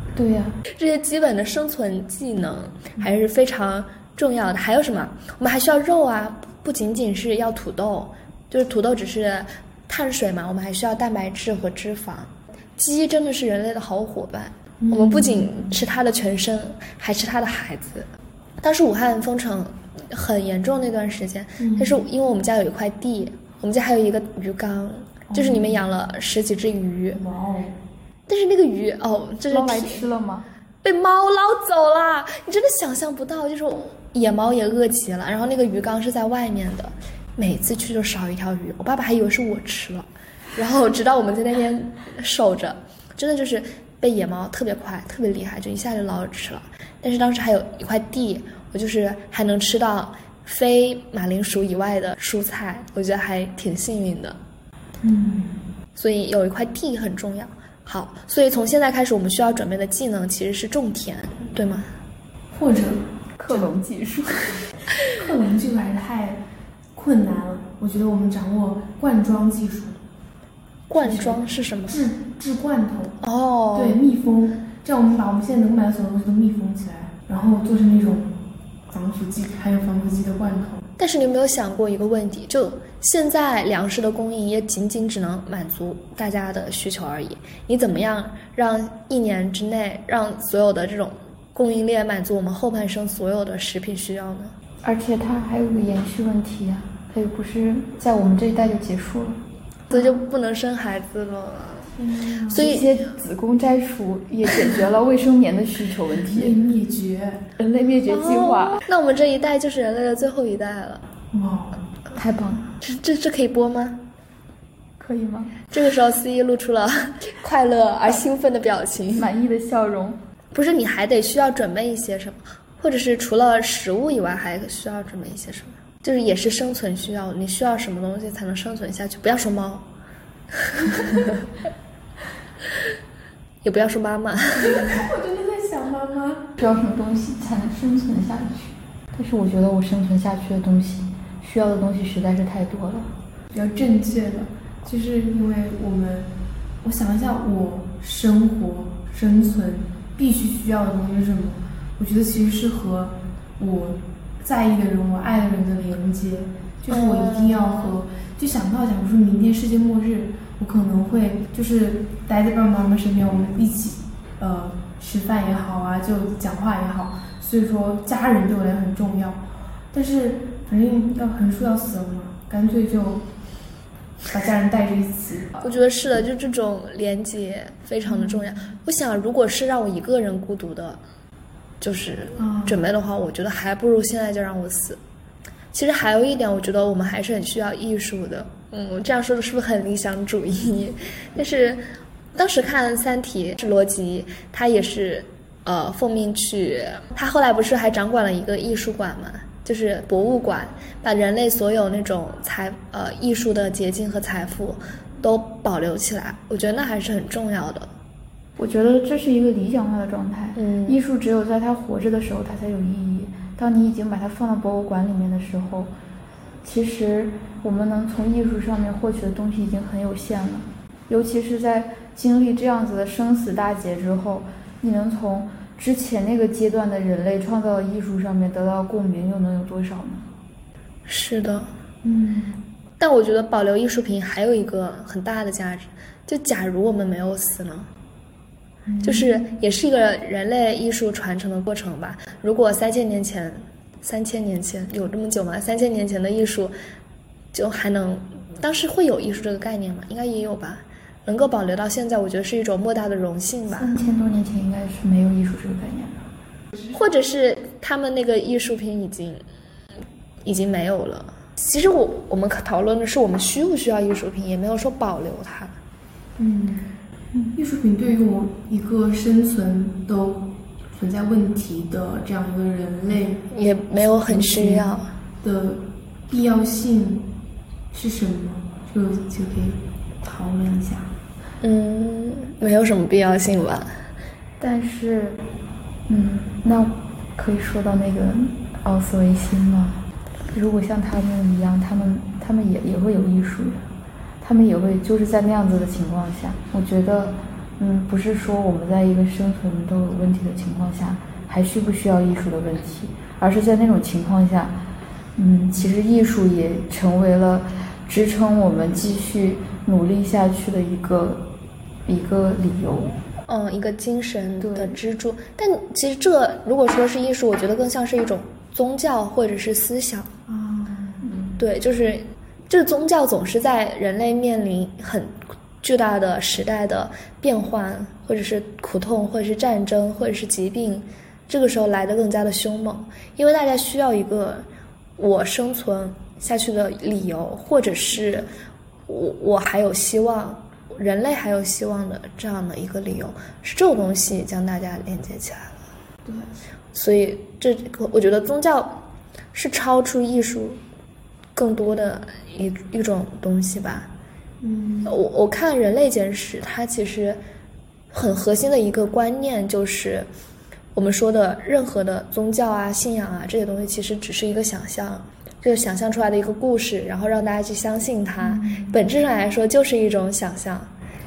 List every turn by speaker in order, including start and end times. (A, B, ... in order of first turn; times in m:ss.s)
0:00.1-0:00.6 A
0:00.8-0:18.1 B
0:14.8-0:15.5 C
0:18.6-0:27.2 B
0:21.6-0:22.0 C
0:25.3-0:25.8 C
0:27.1-0:27.7 C
0:28.3-0:30.0 B
0:29.5-0:30.5 A
0:30.8-0:54.4 B
0:55.0-0:55.6 C
0:56.0-1:01.9 B
1:02.5-1:03.7 C
1:03.4-1:04.7 A
1:05.1-1:06.4 C
1:06.9-1:10.0 C
1:10.9-1:12.0 B
1:11.0-1:11.3 C
1:11.9-1:13.2 C
1:13.2-1:14.0 B
1:13.7-1:18.3 C
1:18.9-1:20.8 C
1:21.0-1:34.5 B
1:34.8-1:39.4 A
1:39.9-1:41.9 B
1:42.0-1:42.7 C
1:42.5-1:42.9 B
1:42.5-1:46.5 A
1:46.2-1:47.5 C
1:47.6-1:48.8 A
1:48.0-1:51.0 B
1:51.3-1:51.8 C
1:52.1-1:52.7 A
1:52.8-1:54.0 B
1:55.0-1:55.6 A
1:55.7-1:59.3 B
1:59.1-2:00.2 A
2:00.5-2:09.9 B
2:10.7-2:11.3 B
2:13.6-2:15.0 B
2:14.5-2:16.5 C
2:16.6-2:23.1 A
2:23.5-2:26.3 C
2:26.8-2:49.4 C
2:36.9-2:37.9 B
2:49.9-2:53.2 C
2:54.3-2:55.8 C
2:55.6-3:01.0 B
2:58.0-2:58.5 C
3:01.8-3:05.0 B
3:02.4-3:02.8 C
3:05.7-3:11.8 B
3:12.3-3:27.9 B
3:28.6-3:35.9 A
3:30.6-3:31.0 B
3:36.6-3:50.3 A
3:51.1-3:51.7 B
3:52.0-3:52.6 C
3:53.0-3:57.9 B
3:58.9-3:59.4 C
3:59.0-4:06.7 B
4:07.5-4:13.9 B
4:13.7-4:16.2 A
4:16.9-4:19.4 B
4:20.4-4:25.7 B
4:26.4-4:26.9 C
4:27.5-4:33.4 C
4:33.5-4:35.1 B
4:34.0-4:37.3 C
4:37.9-4:41.1 C
4:41.6-4:43.9 B
4:44.6-4:45.4 A
4:46.1-4:50.0 A
4:50.5-4:53.8 A
4:54.4-5:04.8 A
5:05.4-5:11.5 A
5:12.0-5:13.2 A
5:13.5-5:20.3 B
5:14.6-5:15.0 A
5:20.5-5:21.3 C
5:21.2-5:21.6 A
5:21.6-5:34.6 B
5:35.2-5:38.5 B
5:39.1-5:45.7 B
5:46.9-5:49.0 B
5:49.5-5:50.8 B
5:51.5-5:54.1 B
5:54.6-5:55.2 C
5:55.0-5:57.4 B
5:58.1-6:00.3 B
6:00.9-6:10.9 B
6:08.4-6:09.0 C